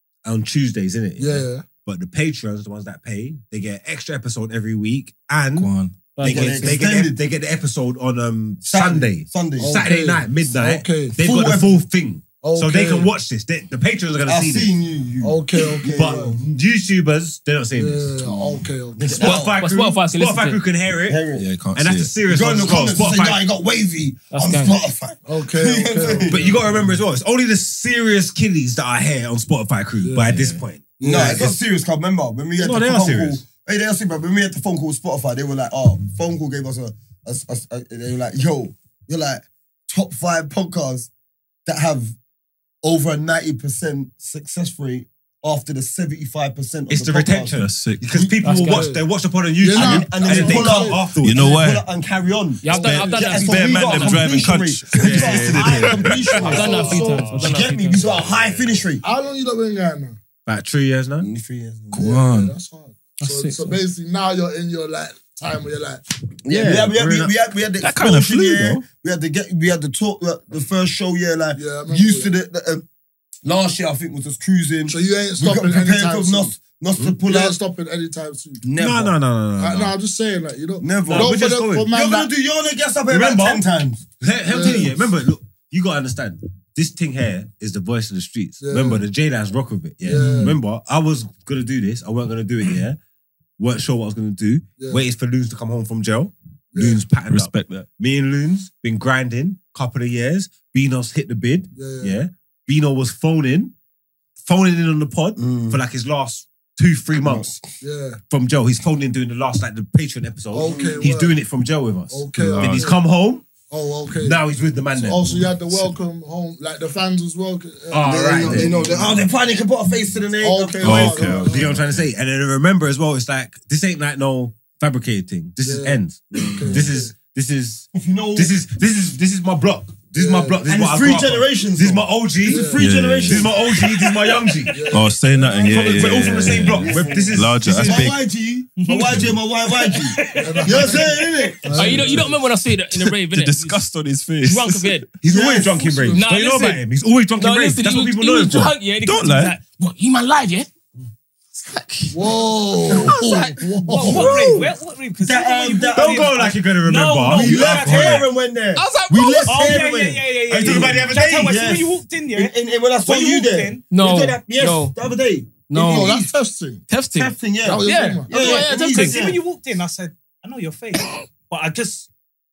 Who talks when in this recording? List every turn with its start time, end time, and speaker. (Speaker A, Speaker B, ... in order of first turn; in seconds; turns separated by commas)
Speaker A: 0.2-14.7, Speaker B: 1.2-1.6, Speaker C: 5.5-6.0, Speaker D: 6.1-6.8, Speaker E: 6.2-7.2, Speaker E: 8.6-9.8, Speaker B: 9.6-11.2, Speaker E: 11.2-11.8, Speaker B: 12.4-13.1, Speaker E: 14.2-16.4, Speaker B: 15.2-16.4, Speaker A: 15.9-18.2, Speaker B: 17.7-19.2, Speaker E: 18.9-19.6, Speaker A: 19.1-21.2, Speaker D: 19.2-20.6, Speaker E: 21.1-21.5, Speaker C: 21.4-22.1, Speaker A: 21.7-23.4, Speaker E: 22.3-26.6, Speaker D: 24.3-24.7, Speaker B: 25.2-26.8, Speaker A: 26.2-31.6, Speaker B: 30.0-30.3, Speaker C: 30.3-30.6, Speaker B: 31.0-31.5, Speaker E: 31.0-41.1, Speaker A: 32.6-33.4, Speaker E: 41.6-42.1, Speaker E: 42.8-48.4, Speaker A: 46.9-51.5, Speaker C: 47.5-48.0, Speaker D: 48.4-48.9, Speaker B: 48.6-49.0, Speaker B: 49.6-51.1, Speaker E: 49.7-59.0, Speaker C: 51.1-51.8, Speaker D: 52.6-54.4, Speaker B: 52.7-53.9, Speaker C: 52.8-56.6, Speaker A: 54.9-56.6, Speaker B: 56.3-57.7, Speaker D: 56.4-58.0, Speaker A: 57.9-58.7, Speaker B: 59.0-60.2, Speaker A: 60.4-61.3, Speaker E: 61.2-62.2, Speaker C: 61.9-62.5, Speaker B: 62.0-66.0, Speaker D: 63.2-63.8, Speaker E: 66.5-72.8, Speaker A: 66.5-67.3, Speaker C: 67.8-68.8, Speaker B: 71.5-72.3, Speaker E: 73.4-77.6, Speaker B: 74.9-76.6, Speaker B: 77.2-78.6, Speaker E: 78.6-79.2, Speaker A: 78.8-79.9, Speaker B: 79.6-82.3, Speaker E: 80.8-84.0, Speaker A: 81.0-81.8, Speaker A: 83.1-83.7, Speaker A: 84.2-93.0, Speaker B: 84.4-84.9, Speaker B: 88.6-89.0, Speaker B: 90.0-90.6, Speaker D: 90.1-90.4, Speaker A: 93.6-103.7, Speaker B: 94.8-95.0, Speaker B: 96.7-97.0, Speaker C: 97.3-97.9, Speaker B: 101.7-102.2, Speaker A: 104.4-107.5, Speaker E: 105.4-105.8, Speaker E: 107.2-107.7, Speaker B: 107.8-108.2, Speaker A: 108.3-113.5, Speaker B: 110.5-111.4, Speaker E: 110.6-111.0, Speaker B: 112.1-113.0, Speaker C: 112.3-113.0, Speaker B: 113.7-119.2, Speaker A: 114.2-115.5, Speaker A: 117.9-119.2, Speaker E: 118.0-121.5, Speaker B: 120.4-121.7, Speaker C: 120.8-122.1, Speaker A: 120.9-135.0, Speaker B: 125.6-127.1, Speaker E: 126.4-126.8, Speaker E: 127.9-128.6, Speaker B: 130.1-130.6, Speaker E: 130.6-133.7, Speaker B: 132.4-133.0, Speaker C: 132.8-133.5, Speaker F: 133.6-134.7, Speaker B: 134.7-136.1, Speaker C: 134.9-138.2, Speaker A: 135.5-138.1, Speaker E: 136.5-142.0, Speaker B: 136.8-137.4, Speaker F: 138.8-140.8, Speaker B: 140.4-142.4, Speaker D: 141.7-143.8, Speaker C: 143.0-145.0, Speaker D: 144.4-145.1, Speaker A: 145.2-148.7, Speaker E: 145.2-145.9, Speaker B: 145.8-146.2, Speaker D: 146.1-146.8, Speaker D: 147.4-150.7, Speaker C: 149.0-149.6, Speaker D: 151.5-154.7, Speaker B: 152.1-154.4, Speaker E: 152.9-153.2, Speaker E: 153.9-154.5, Speaker F: 153.9-158.2, Speaker E: 155.2-156.3, Speaker A: 155.9-158.3, Speaker E: 157.3-166.3, Speaker D: 158.7-159.8, Speaker F: 159.5-163.9, Speaker A: 160.5-161.5, Speaker D: 163.9-164.9, Speaker D: 165.7-166.2, Speaker B: 165.8-166.8, Speaker D: 166.9-169.2, Speaker E: 167.1-169.4, Speaker B: 167.6-168.4, Speaker F: 168.4-172.1